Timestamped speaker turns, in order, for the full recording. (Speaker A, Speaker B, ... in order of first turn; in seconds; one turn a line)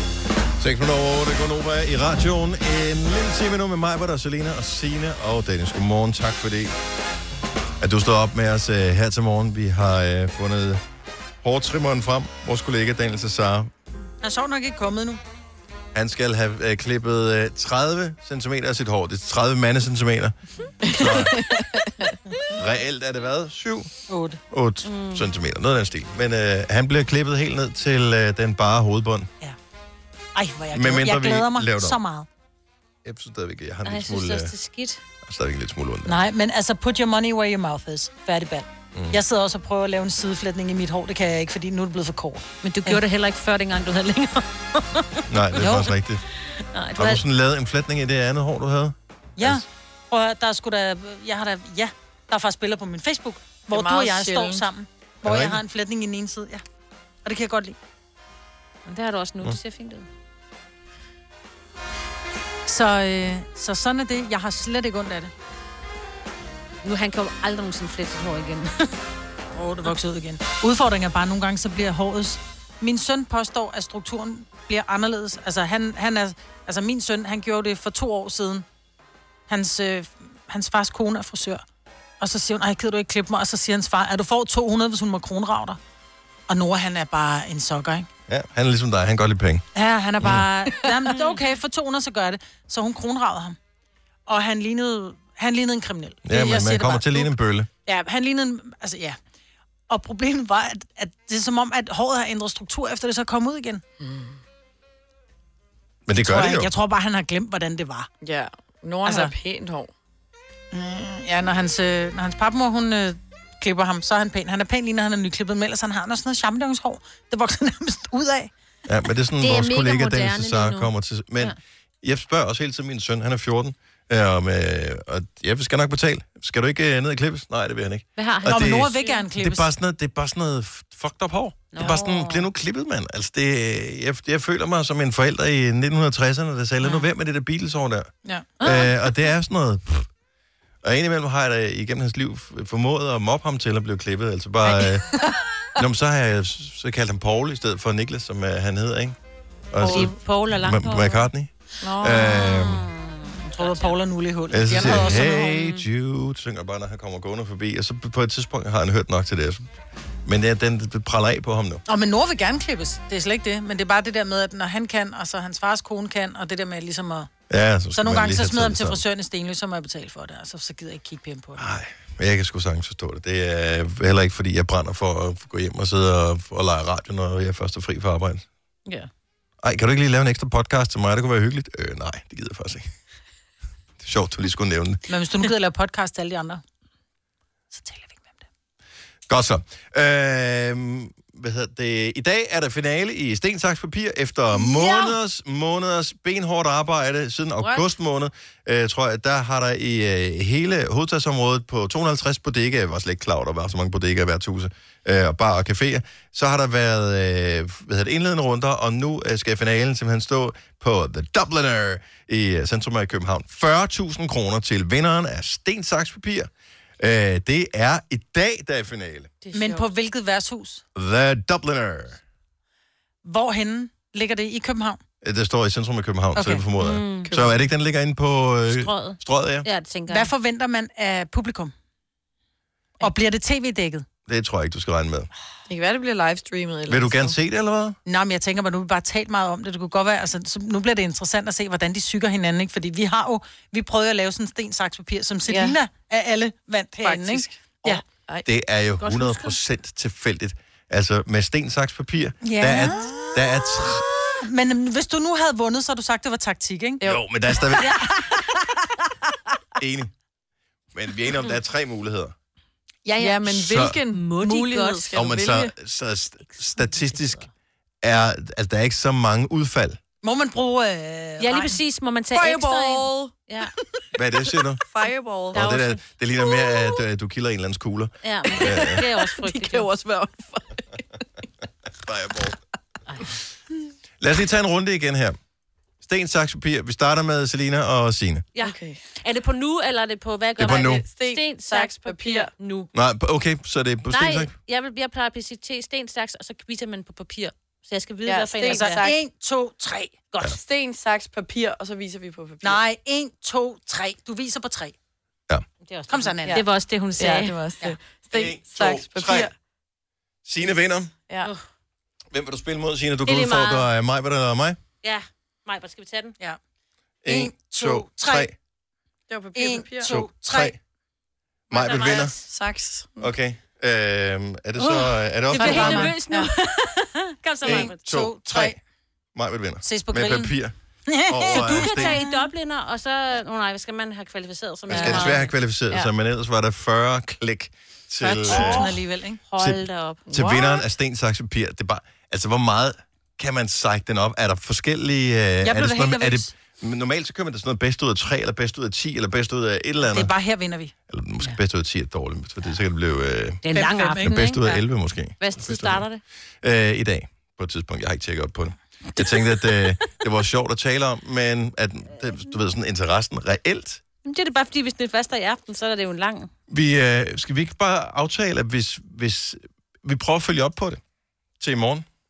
Speaker A: 0.6-6.7
Speaker A: 7.8-10.8
Speaker A: 11.4-13.7
Speaker B: 14.2-15.2
Speaker A: 15.9-20.3
Speaker C: 20.8-22.2
Speaker A: 20.9-21.4
Speaker A: 22.5-23.9
Speaker B: 24.1-24.4
Speaker A: 24.5-29.3
Speaker D: 24.8-25.3
Speaker B: 30.4-32.3
Speaker A: 30.7-32.0
Speaker A: 33.0-34.5
Speaker D: 33.9-35.0
Speaker A: 35.2-36.2
Speaker B: 36.0-43.0
Speaker D: 42.6-45.9
Speaker A: 45.3-46.2
Speaker B: 45.6-45.9
Speaker D: 46.7-47.2
Speaker A: 47.0-49.6
Speaker B: 49.4-56.6
Speaker C: 53.7-54.7
Speaker A: 55.2-55.6
Speaker B: 57.2-57.8
Speaker D: 58.9-60.1
Speaker B: 62.7-65.3
Speaker D: 66.8-68.9
Speaker B: 69.5-78.6
Speaker B: 79.5-81.6
Speaker B: 82.2-85.8
Speaker B: 86.5-88.1
Speaker A: 88.3-89.6
Speaker B: 89.8-93.6
Speaker A: 90.2-90.5
Speaker B: 94.3-97.3
Speaker A: 96.2-97.7
Speaker B: 97.8-99.2
Speaker B: 99.9-103.8
Speaker C: 104.0-104.4
Speaker A: 106.1-106.7
Speaker B: 106.2-108.1
Speaker C: 108.2-109.9
Speaker B: 109.0-109.3
Speaker B: 110.7-118.5
Speaker A: 118.9-138.1
Speaker D: 119.4-121.6
Speaker D: 128.2-129.2
Speaker B: 128.4-129.7
Speaker D: 131.7-132.5
Speaker D: 136.8-137.1
Speaker D: 138.6-139.1
Speaker A: 138.6-140.1
Speaker A: 140.8-145.2
Speaker A: 145.8-149.2
Speaker A: 149.7-152.9
Speaker C: 149.8-150.1
Speaker D: 149.8-151.3
Speaker C: 151.8-152.5
Speaker D: 152.2-154.0
Speaker B: 153.6-155.5
Speaker A: 154.5-159.7
Speaker D: 154.8-155.8
Speaker A: 160.3-161.8
Speaker B: 161.9-167.3
Speaker A: 167.5-169.0
Speaker B: 167.9-171.6
Speaker A: 171.6-178.4
Speaker A: 179.6-182.9
Speaker A: 184.0-185.0
Speaker B: 185.1-186.6
Speaker B: 187.7-188.4
Speaker A: 189.3-216.5
Speaker C: 197.6-197.9
Speaker A: 217.0-219.3
Speaker B: 219.5-220.8
Speaker C: 219.5-219.8
Speaker A: 220.9-222.2
Speaker B: 223.2-225.0
Speaker A: 225.2-229.7
Speaker B: 226.3-226.6
Speaker D: 226.8-227.3
Speaker C: 227.3-227.6
Speaker D: 228.7-230.3
Speaker B: 230.1-231.7
Speaker B: 233.0-234.1
Speaker A: 234.3-235.3
Speaker C: 235.7-237.4
Speaker A: 236.9-237.9
Speaker B: 238.1-248.0
Speaker C: 245.5-245.8
Speaker C: 247.0-248.5
Speaker A: 248.4-254.1
Speaker D: 249.0-249.5
Speaker B: 252.4-257.0
Speaker C: 257.0-257.9
Speaker A: 257.0-258.0
Speaker A: 259.8-260.1
Speaker A: 260.9-262.3
Speaker B: 263.1-263.4
Speaker C: 263.2-265.7
Speaker A: 263.5-264.0
Speaker D: 264.1-265.1
Speaker A: 265.1-267.4
Speaker D: 266.8-267.4
Speaker A: 268.0-270.0
Speaker B: 270.2-271.8
Speaker D: 271.4-273.7
Speaker C: 272.3-273.3
Speaker A: 274.1-274.8
Speaker C: 274.9-275.7
Speaker A: 275.5-279.0
Speaker D: 275.5-276.0
Speaker C: 276.4-276.9
Speaker D: 278.2-279.9
Speaker C: 278.5-281.2
Speaker A: 282.0-282.6
Speaker A: 284.2-285.4
Speaker A: 286.0-288.4
Speaker D: 288.6-292.9
Speaker C: 288.6-289.0
Speaker A: 290.6-291.0
Speaker C: 290.6-292.5
Speaker A: 292.9-294.5
Speaker D: 294.1-299.1
Speaker C: 298.2-299.2
Speaker B: 298.7-300.1
Speaker C: 300.6-302.8
Speaker B: 302.6-304.9
Speaker D: 305.9-307.6
Speaker B: 306.1-306.6
Speaker C: 307.2-309.5
Speaker A: 308.3-309.5
Speaker A: 310.4-311.1
Speaker C: 311.3-311.5
Speaker A: 312.3-314.8
Speaker D: 313.3-313.9
Speaker D: 315.0-316.4
Speaker A: 317.2-318.5
Speaker B: 317.3-318.5
Speaker C: 319.3-320.1
Speaker B: 319.6-320.7
Speaker A: 320.0-320.8
Speaker A: 321.7-322.4
Speaker D: 321.7-322.4
Speaker C: 321.9-323.3
Speaker A: 323.2-326.2
Speaker D: 324.8-328.0
Speaker B: 325.5-326.2
Speaker C: 325.6-326.5
Speaker A: 327.6-328.8
Speaker B: 327.6-328.8
Speaker A: 329.4-330.8
Speaker B: 329.8-332.3
Speaker A: 331.3-332.2
Speaker D: 331.5-335.5
Speaker A: 334.9-339.0
Speaker B: 334.9-335.4
Speaker C: 334.9-335.3
Speaker B: 338.2-339.4
Speaker D: 338.5-338.9
Speaker D: 339.5-340.2
Speaker A: 339.6-350.3
Speaker C: 340.3-340.9
Speaker B: 345.6-346.5
Speaker B: 350.0-350.9
Speaker A: 351.1-353.6
Speaker D: 353.6-354.8
Speaker B: 353.7-354.7
Speaker A: 354.2-356.1
Speaker D: 355.4-356.2
Speaker A: 356.6-364.0
Speaker D: 359.2-359.7
Speaker D: 364.2-366.5
Speaker A: 366.7-371.0
Speaker A: 371.6-372.1